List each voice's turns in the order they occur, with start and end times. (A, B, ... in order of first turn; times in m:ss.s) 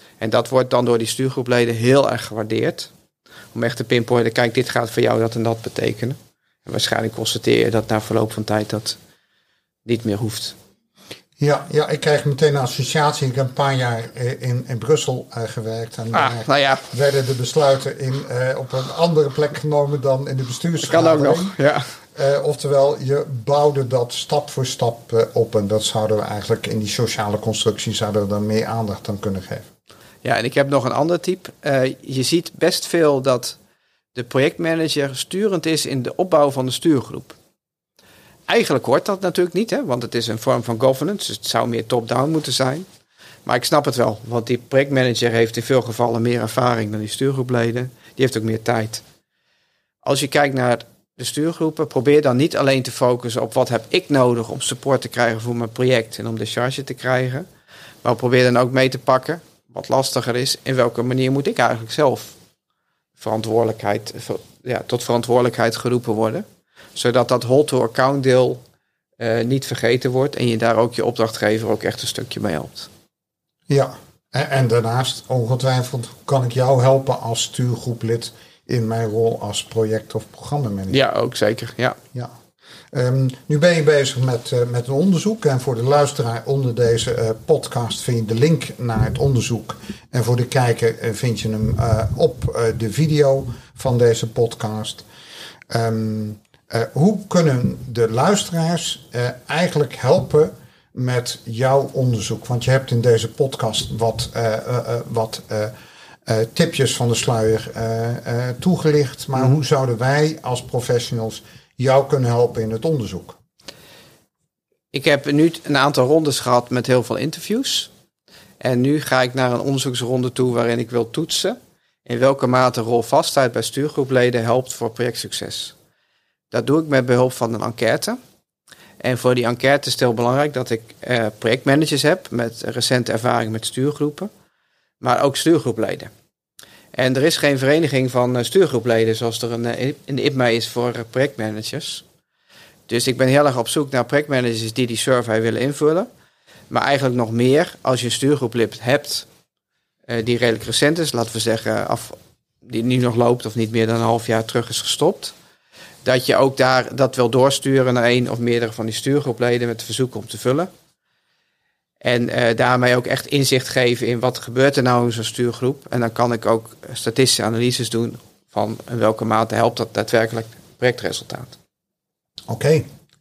0:00.2-0:02.9 A
0:03.5-0:09.0 A
0:09.8-0:10.6 A
0:11.4-0:21.6 B
0:16.1-0:16.9 A
0:20.8-0:21.9 A
0:22.1-0:29.6 B
0:30.2-0:33.6 A
0:34.1-0:37.4 A
0:38.5-0:42.9 A
0:43.5-0:49.0 A
0:50.0-0:57.5 A
0:58.0-1:02.4 A
1:03.2-1:08.6 A
1:09.2-1:12.9 A
1:13.7-1:21.0 B
1:20.9-1:22.0 A
1:22.9-1:35.0 B
1:35.7-1:45.7 B
1:46.3-1:53.4 B
1:54.9-1:57.9 A
1:58.6-2:05.8 A
2:06.5-2:08.2 A
2:09.0-2:14.3 A
2:15.0-2:16.1 A
2:16.9-2:22.0 A
2:22.9-2:26.1 A
2:26.7-2:29.3 A
2:30.1-2:35.3 A
2:36.0-2:40.7 A
2:42.0-2:51.6 A
2:52.5-2:52.9 B